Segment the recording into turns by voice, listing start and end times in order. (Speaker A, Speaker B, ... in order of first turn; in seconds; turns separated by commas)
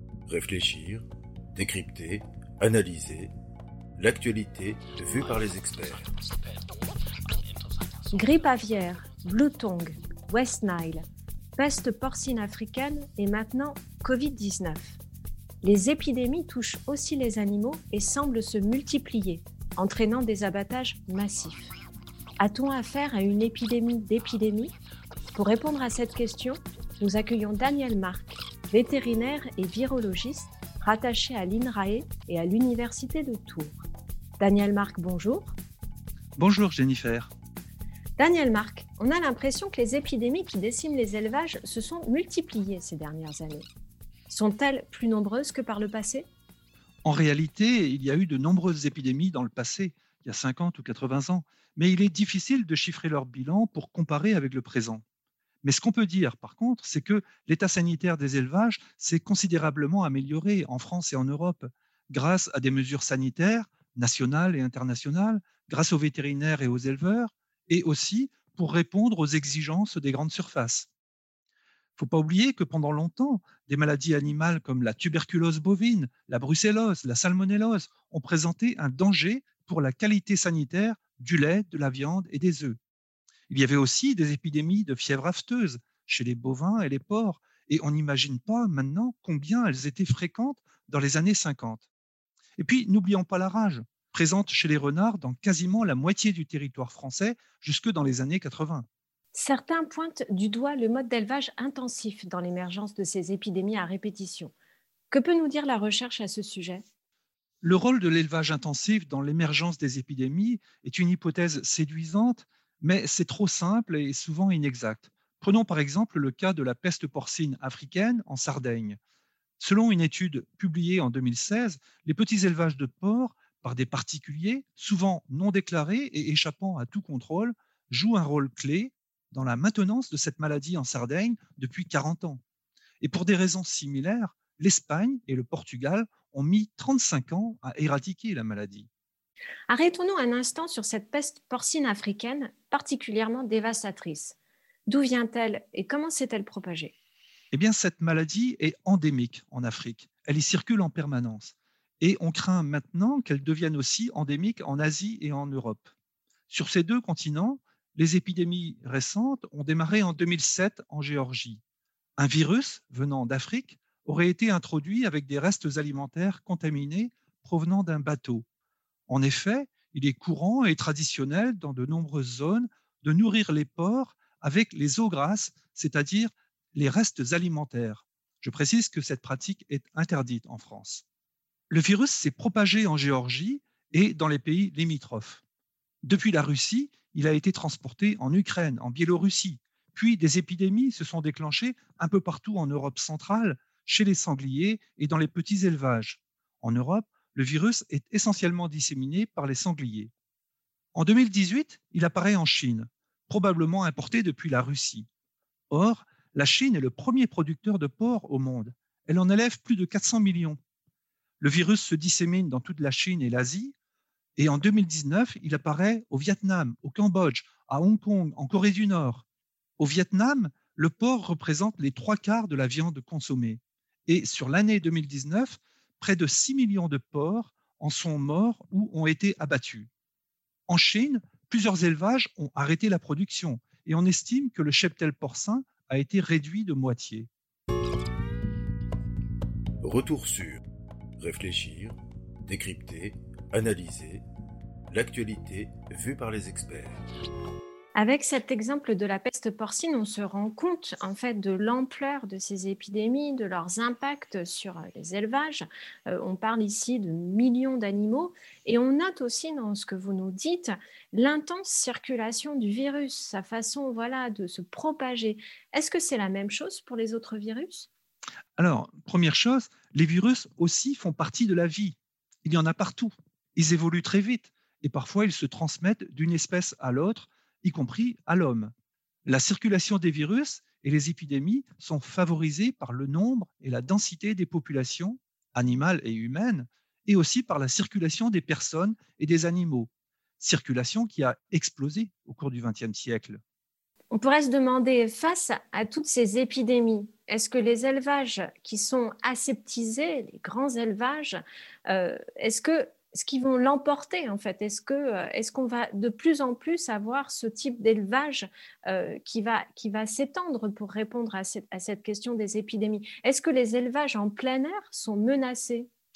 Speaker A: 0.3-1.0, Speaker A: 1.6-3.3, Speaker A: 4.0-6.1, Speaker B: 8.1-11.0, Speaker B: 11.6-15.0, Speaker B: 15.6-21.7, Speaker B: 22.4-24.7, Speaker B: 25.4-33.9, Speaker B: 34.4-35.5, Speaker C: 36.4-37.3, Speaker B: 38.2-43.7, Speaker B: 44.3-46.3, Speaker C: 47.0-55.0, Speaker C: 55.6-70.9, Speaker C: 72.0-82.8, Speaker C: 83.5-91.9, Speaker C: 92.6-98.8, Speaker B: 99.3-104.5, Speaker B: 105.1-106.8, Speaker C: 107.6-119.0, Speaker C: 119.6-132.4, Speaker C: 133.0-138.9, Speaker B: 139.7-146.9, Speaker C: 147.5-155.9, Speaker C: 156.5-161.6, Speaker C: 162.2-168.4, Speaker C: 169.1-181.0, Speaker C: 181.7-185.4, Speaker C: 186.0-200.1, Speaker C: 200.9-205.1, Speaker C: 205.7-210.6, Speaker C: 211.4-213.7, Speaker C: 214.4-219.2, Speaker C: 219.8-229.9, Speaker C: 230.7-237.3, Speaker A: 239.8-240.6, Speaker A: 241.2-244.2, Speaker A: 244.9-247.0, Speaker B: 247.9-267.9, Speaker C: 268.6-278.7, Speaker C: 279.3-289.9, Speaker C: 290.4-293.4, Speaker B: 294.1-315.9